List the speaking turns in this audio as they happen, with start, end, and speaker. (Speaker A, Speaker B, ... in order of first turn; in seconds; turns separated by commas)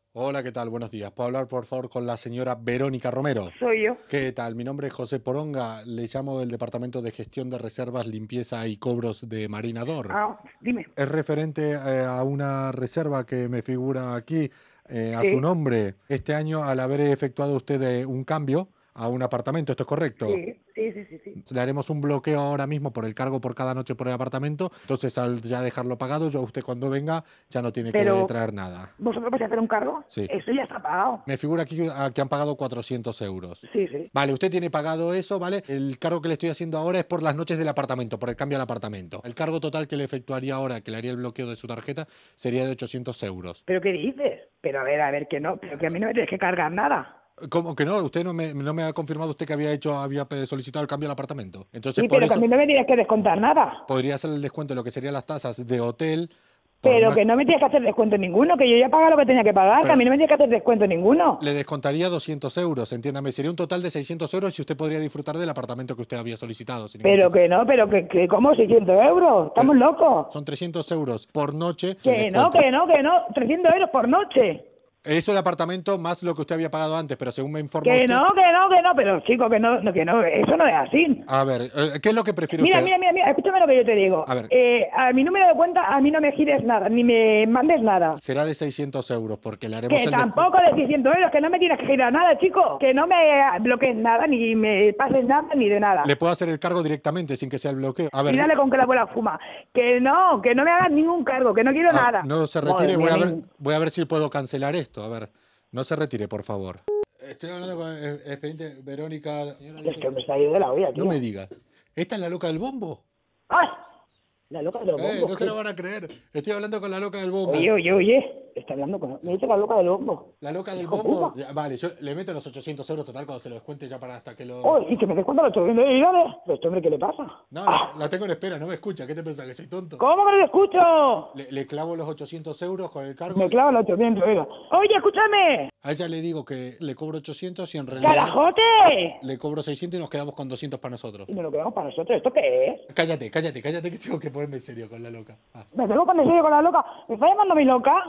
Speaker A: 0.1-3.5, Speaker B: 3.5-4.0, Speaker A: 4.1-10.2, Speaker B: 10.1-10.9, Speaker A: 11.0-20.4, Speaker B: 15.2-15.4, Speaker B: 20.2-21.4, Speaker A: 21.4-28.9, Speaker B: 27.9-28.3, Speaker B: 29.0-31.2, Speaker A: 31.3-43.6, Speaker B: 33.7-34.1, Speaker B: 43.7-47.1, Speaker A: 47.5-52.5, Speaker B: 52.0-53.8, Speaker A: 53.9-57.2, Speaker B: 56.9-61.4, Speaker A: 59.8-60.1, Speaker A: 61.4-67.3, Speaker B: 67.0-70.3, Speaker A: 70.3-72.7, Speaker B: 72.0-74.7, Speaker A: 75.0-78.2, Speaker B: 77.8-81.2, Speaker A: 81.3-82.9, Speaker B: 82.6-88.2, Speaker A: 84.3-84.5, Speaker A: 88.2-90.5, Speaker B: 89.9-96.1, Speaker A: 96.0-98.5, Speaker B: 98.3-103.4, Speaker A: 101.9-110.2, Speaker B: 109.8-111.2, Speaker A: 110.9-113.0, Speaker B: 113.5-113.8, Speaker B: 114.5-115.5, Speaker A: 115.0-117.7, Speaker B: 117.5-121.3, Speaker A: 120.4-124.8, Speaker B: 124.6-127.9, Speaker A: 127.5-130.0, Speaker B: 130.0-131.3, Speaker A: 131.3-133.8, Speaker B: 133.3-135.7, Speaker A: 135.8-138.4, Speaker B: 138.0-139.2, Speaker A: 139.2-141.3, Speaker B: 141.3-142.8, Speaker A: 142.9-145.7, Speaker B: 145.8-148.0